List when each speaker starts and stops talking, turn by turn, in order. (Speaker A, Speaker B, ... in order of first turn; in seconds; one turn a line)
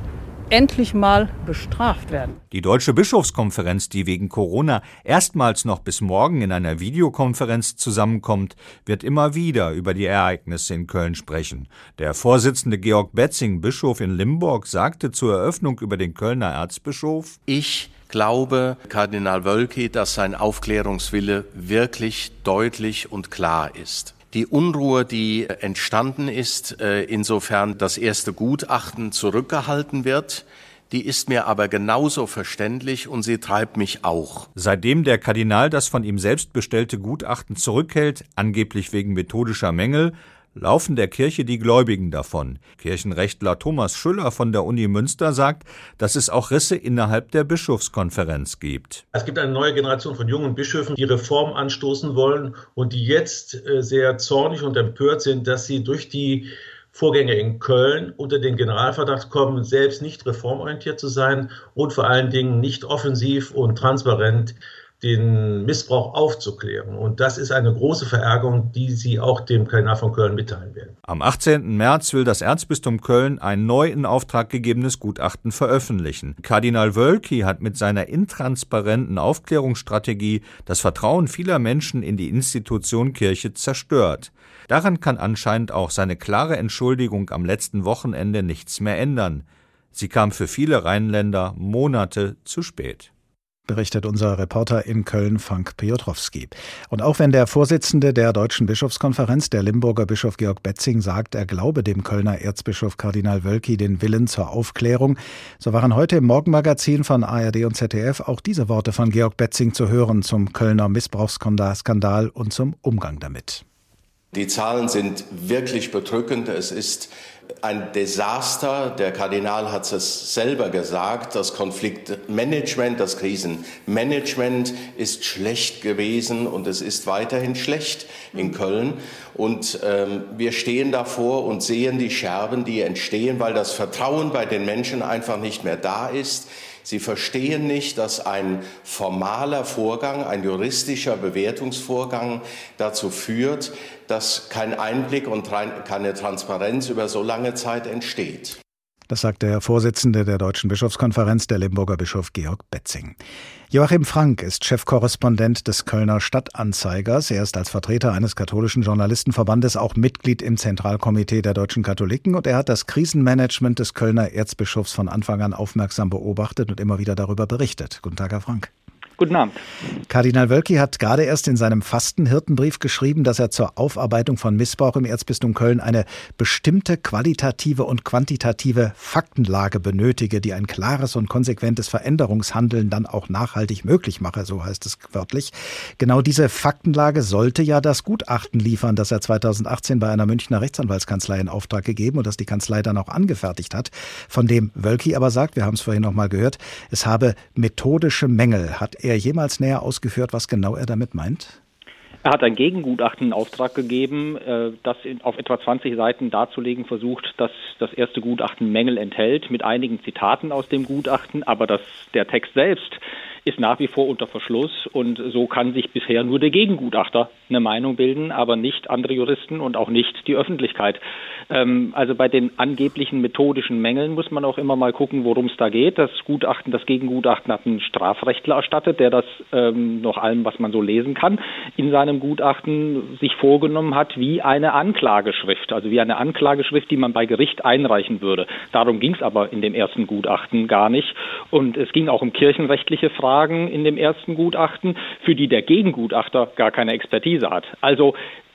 Speaker A: 0.5-2.4
Speaker B: 2.5-17.4
Speaker C: 17.4-34.5
Speaker B: 34.5-49.0
Speaker D: 49.1-70.9
Speaker B: 71.0-93.1
Speaker E: 93.7-113.6
Speaker C: 114.3-117.1
Speaker C: 117.6-148.6
Speaker E: 149.1-153.2
Speaker E: 153.7-168.7
Speaker F: 169.2-169.6
Speaker E: 170.1-201.6
Speaker F: 202.2-248.1